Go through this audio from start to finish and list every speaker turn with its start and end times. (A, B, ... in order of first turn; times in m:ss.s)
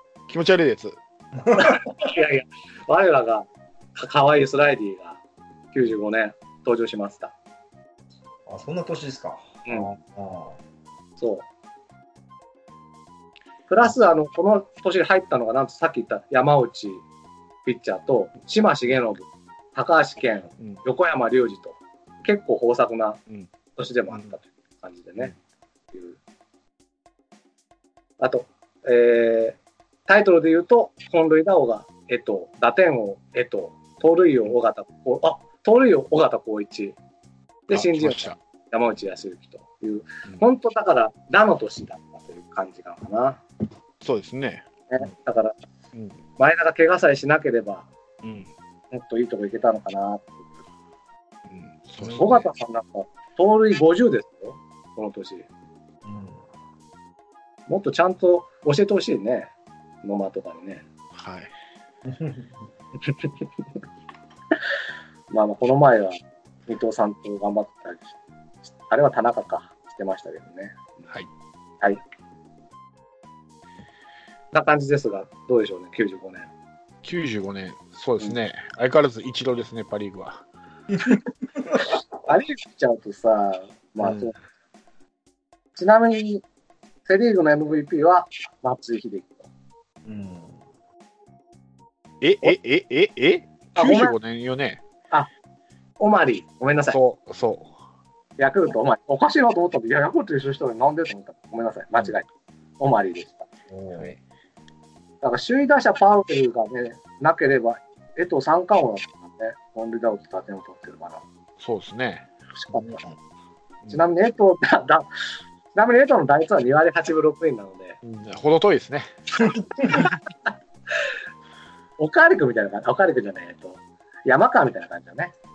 0:00.3-0:01.0 A
0:01.3-0:01.8 B
0:01.6-0:03.4 C
0:04.0-0:05.2 C
0:05.7-0:07.3 C
0:08.5-0:10.6 B
0:09.6-0:09.9 C
0:11.2-0:11.4 C
0:13.7-0:17.0 C
0:17.6-0:23.2 C
0:23.8-0:25.3 C
0:25.9-0:26.2 C
0:28.2-0:37.0 C
0:37.7-0:43.4 C
0:37.7-0:38.4 A
0:44.0-0:44.6 A
0:44.9-0:45.5 C
0:46.4-0:47.9 C
0:48.2-0:48.5 A
0:48.9-0:50.5 C
0:51.5-0:52.5 A
0:52.0-0:52.3 B
0:52.2-0:55.5 C
0:56.0-0:56.4 B
0:57.7-0:59.5 C
1:00.0-1:00.8 C
1:01.1-1:01.5 A
1:02.0-1:02.7 B
1:05.3-1:10.9 C
1:14.5-1:16.5 C
1:17.0-1:20.4 A
1:20.9-1:21.9 B
1:22.2-1:24.4 C
1:25.8-1:26.4 C
1:27.0-1:29.5 C
1:30.0-1:30.6 B
1:32.2-1:34.8 A
1:33.8-1:34.2 C
1:36.0-1:37.0 C
1:36.9-1:37.7 A
1:38.4-1:42.3 C
1:42.8-1:43.5 C
1:43.7-1:44.2 B
1:45.2-1:51.2 C
1:51.6-1:52.3 A
1:52.6-1:53.0 C
1:52.7-1:53.0 B
1:53.9-1:55.1 C
1:55.7-1:58.0 C
1:58.0-1:59.2 A
1:59.4-2:00.5 C
2:02.0-2:05.3 C